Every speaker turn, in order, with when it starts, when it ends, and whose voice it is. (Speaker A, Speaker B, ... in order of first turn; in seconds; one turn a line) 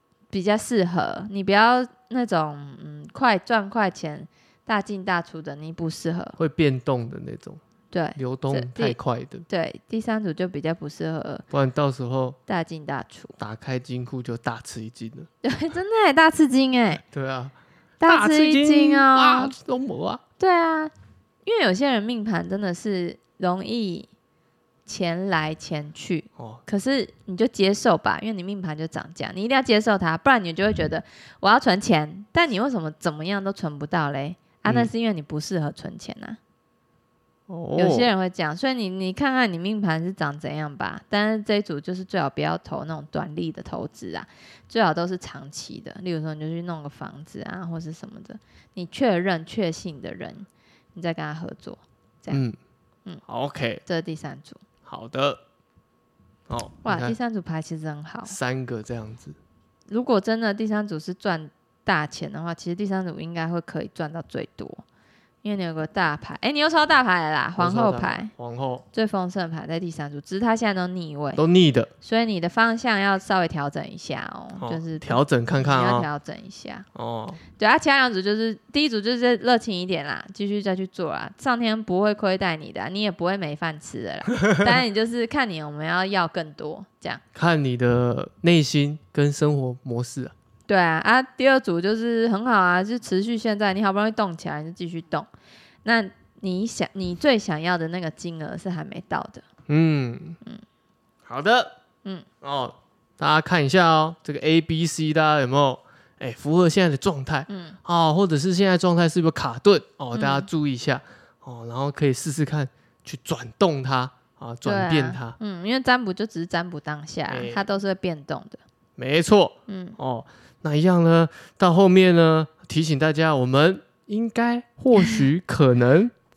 Speaker A: 0.3-6.4
Speaker B: 6.4-7.6
Speaker A: 7.9-9.0
Speaker B: 8.2-9.5
Speaker A: 9.5-11.4
Speaker B: 11.5-12.4
Speaker A: 12.5-13.3
Speaker B: 13.4-15.3
Speaker A: 15.4-17.0
Speaker B: 17.1-20.2
Speaker A: 18.0-19.5
Speaker A: 20.4-20.9
Speaker A: 21.5-24.1
Speaker A: 24.9-36.4
Speaker B: 37.5-38.1
Speaker A: 37.8-52.4
Speaker B: 52.3-52.6
Speaker B: 53.3-53.8
Speaker A: 53.9-54.6
Speaker B: 54.9-55.4
Speaker B: 56.5-57.2
Speaker A: 56.9-58.4
Speaker B: 58.3-59.4
Speaker A: 59.9-64.8
Speaker A: 65.4-68.3
Speaker B: 67.6-68.8
Speaker A: 68.9-71.4
Speaker B: 71.4-71.9
Speaker A: 72.0-76.9
Speaker B: 74.6-76.1
Speaker B: 77.0-77.4
Speaker A: 77.6-87.2
Speaker B: 84.4-84.7
Speaker B: 87.3-90.3
Speaker A: 90.7-95.3
Speaker A: 95.8-99.4
Speaker B: 99.7-100.4
Speaker B: 101.3-101.7
Speaker B: 102.4-115.4
Speaker A: 107.5-107.8
Speaker A: 110.2-110.5
Speaker A: 114.7-118.6
Speaker B: 117.3-117.7
Speaker B: 119.0-126.1
Speaker A: 119.7-120.0